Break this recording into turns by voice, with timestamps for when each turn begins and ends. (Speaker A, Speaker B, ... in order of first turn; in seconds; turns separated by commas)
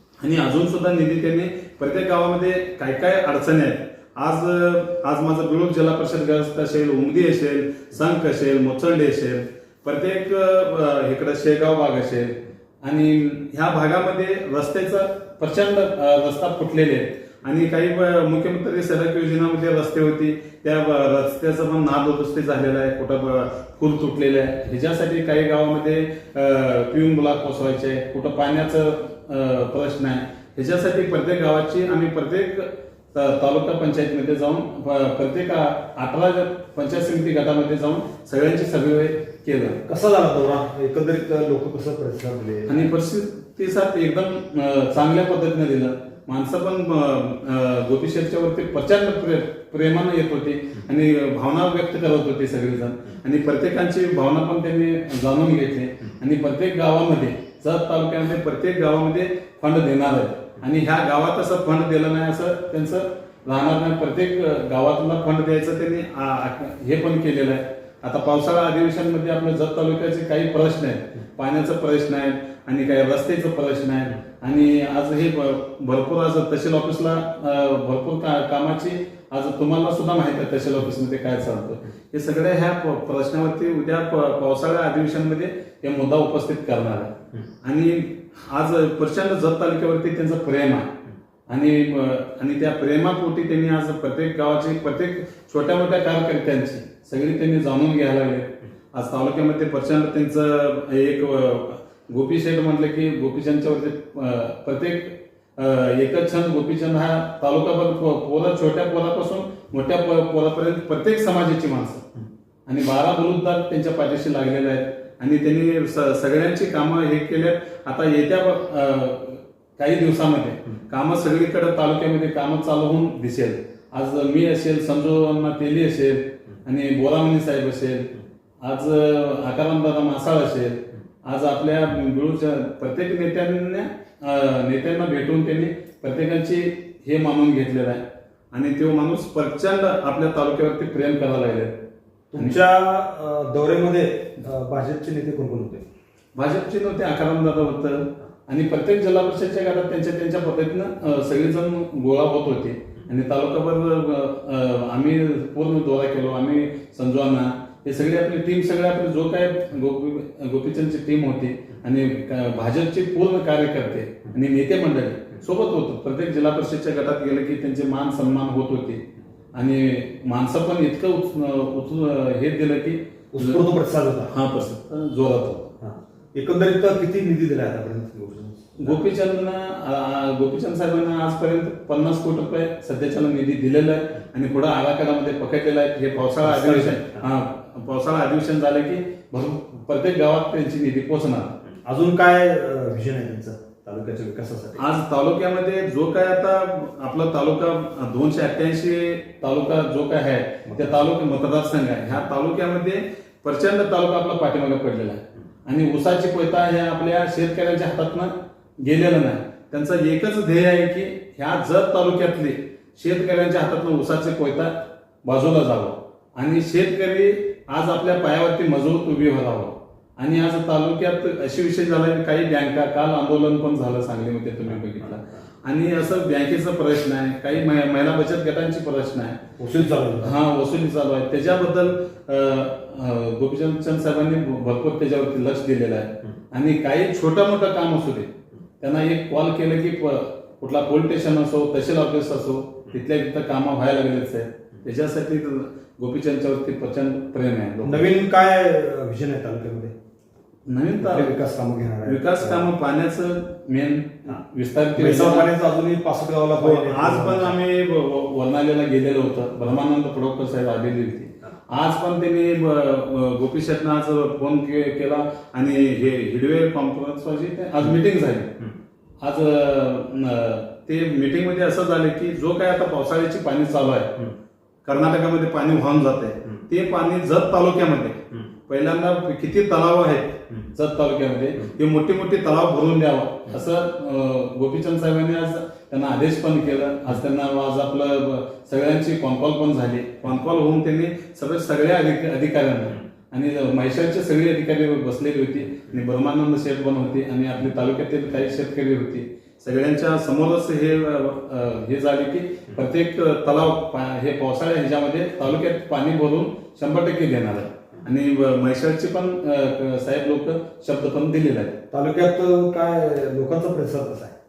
Speaker A: 0.2-39.8, Speaker B: 39.8-42.9, Speaker A: 42.7-90.9, Speaker A: 91.5-112.0, Speaker A: 112.7-138.0, Speaker A: 138.5-141.7, Speaker B: 142.3-145.8, Speaker A: 146.3-169.0, Speaker A: 169.5-173.6, Speaker B: 173.3-174.3, Speaker A: 174.3-175.7, Speaker B: 175.8-179.0, Speaker A: 178.8-191.5, Speaker B: 186.4-187.2, Speaker B: 191.8-194.8, Speaker A: 194.8-214.7, Speaker B: 200.7-201.1, Speaker A: 215.2-229.4, Speaker B: 229.6-230.3, Speaker A: 230.2-238.3, Speaker A: 238.8-248.0, Speaker B: 247.8-249.9, Speaker A: 250.7-251.3, Speaker B: 251.0-252.7, Speaker A: 252.0-255.5, Speaker B: 254.9-257.6, Speaker A: 256.6-268.5, Speaker A: 269.2-274.1, Speaker A: 274.8-311.7, Speaker B: 311.9-314.3